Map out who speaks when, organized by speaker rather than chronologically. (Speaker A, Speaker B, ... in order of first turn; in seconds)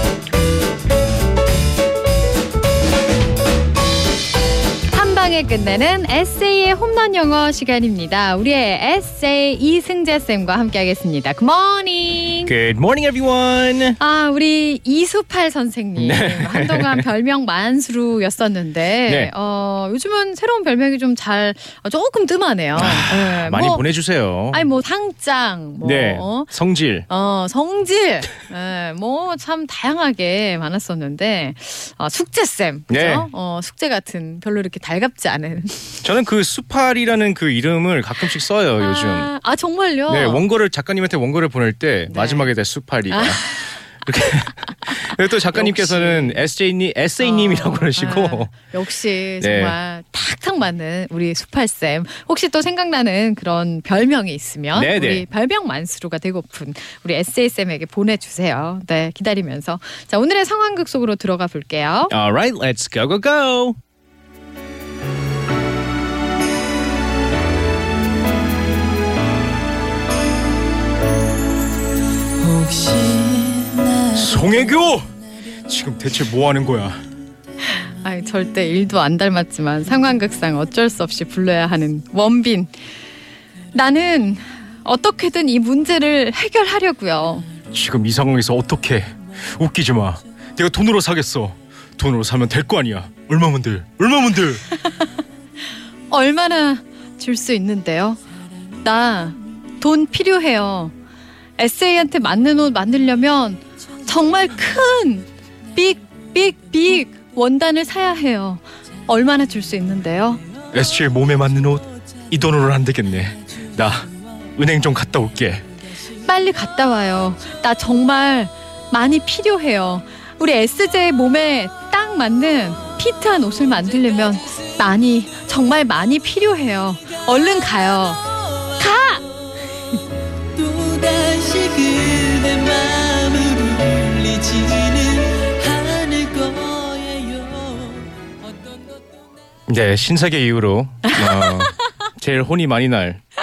Speaker A: 4.9-12.5, 14.0-23.8, 24.5-26.5, 27.1-36.0, 38.8-40.5, 42.1-42.5, 43.1-43.7, 45.5-46.4, 47.2-62.1, 77.8-82.7, 83.7-87.5, 96.1-98.2, 98.8-100.9, 101.6-110.4, 116.2-129.3, 141.1-141.9
Speaker B: 12.5-14.0, 16.0-17.1, 19.1-19.3, 22.8-24.7, 25.8-27.1, 32.9-33.3, 36.0-39.3, 40.1-48.5, 49.4-49.8, 54.7-55.2, 62.1-63.8, 74.1-75.1, 75.6-77.0, 87.7-94.6, 110.7-115.7, 139.7-143.2
Speaker C: 72.5-74.0, 130.6-138.0